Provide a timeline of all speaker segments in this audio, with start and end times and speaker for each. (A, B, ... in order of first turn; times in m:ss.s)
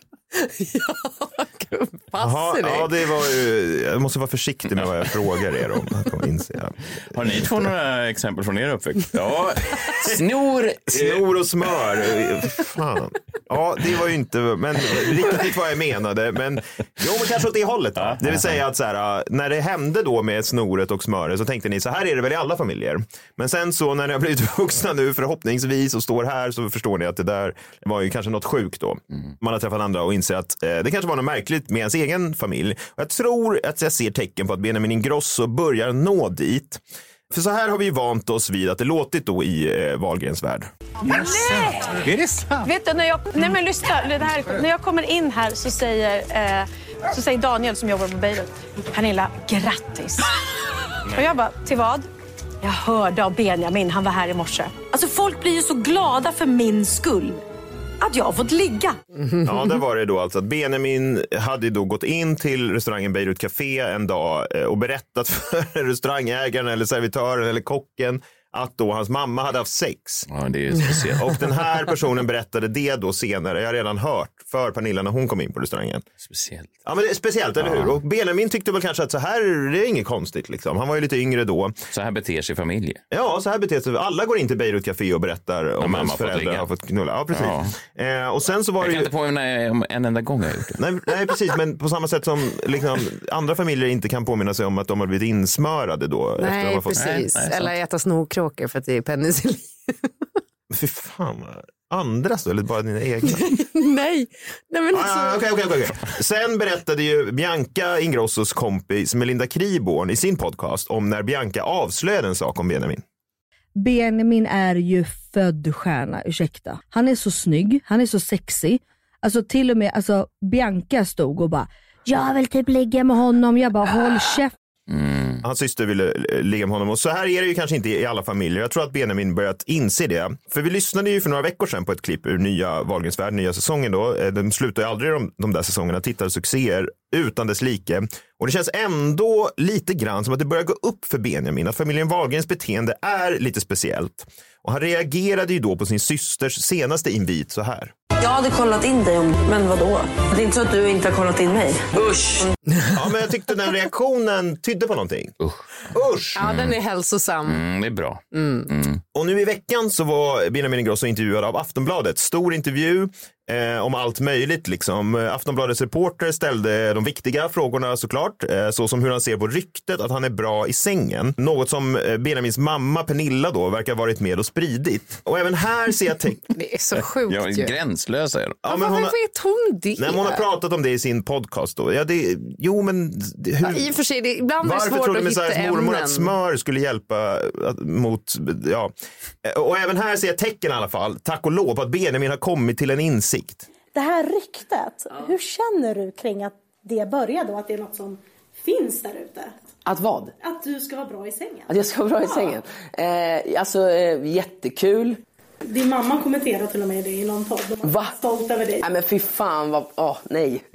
0:00.3-0:02.9 A
0:02.2-0:07.7 B
0:07.1-0:11.3 C
0:10.9-0:40.7 B
0:18.0-0:18.6 C
0:41.1-0:42.1 D
0:42.6-0:50.3 D
0:51.1-0:52.1 D
0:52.6-0:57.4 D
0:58.0-0:59.0 D
0:59.4-1:10.3 B
1:10.3-1:11.4 C
1:11.2-1:16.0 B
1:16.2-1:16.7 C
1:16.9-1:21.8 B
1:17.6-1:18.0 C
1:21.9-1:23.0 C
1:23.1-1:29.1 B
1:25.8-1:26.7 C
1:27.3-1:27.8 C
1:28.8-1:30.8 C
1:30.8-1:37.0 B
1:36.4-1:39.9 A
1:37.0-1:37.7 C
1:40.7-1:43.6 B
1:43.3-1:45.4 A
1:44.9-1:53.0 B
1:53.8-2:04.5 E
2:04.9-2:05.4 C
2:05.4-2:27.9 B
2:28.2-2:32.5 F
2:32.0-2:32.5 G
2:32.9-2:35.4 B
2:35.4-2:36.8 C
2:35.9-2:36.4 B
2:36.4-2:37.6 A
2:37.5-2:39.0 C
2:38.3-2:38.7 A
2:39.1-2:56.4 B
2:56.5-2:57.7 A
2:57.3-2:58.6 C
2:58.6-2:59.2 B
2:58.7-3:00.5 A
3:00.0-3:03.9 B
3:03.6-3:06.3 A
3:04.6-3:08.9 B
3:09.4-3:13.7 B
3:13.9-3:19.5 H
3:19.9-3:20.3 G
3:20.4-3:21.7 H
3:21.7-3:25.2 G
3:25.7-3:28.8 H
3:27.8-3:28.2 G
3:28.8-3:30.6 G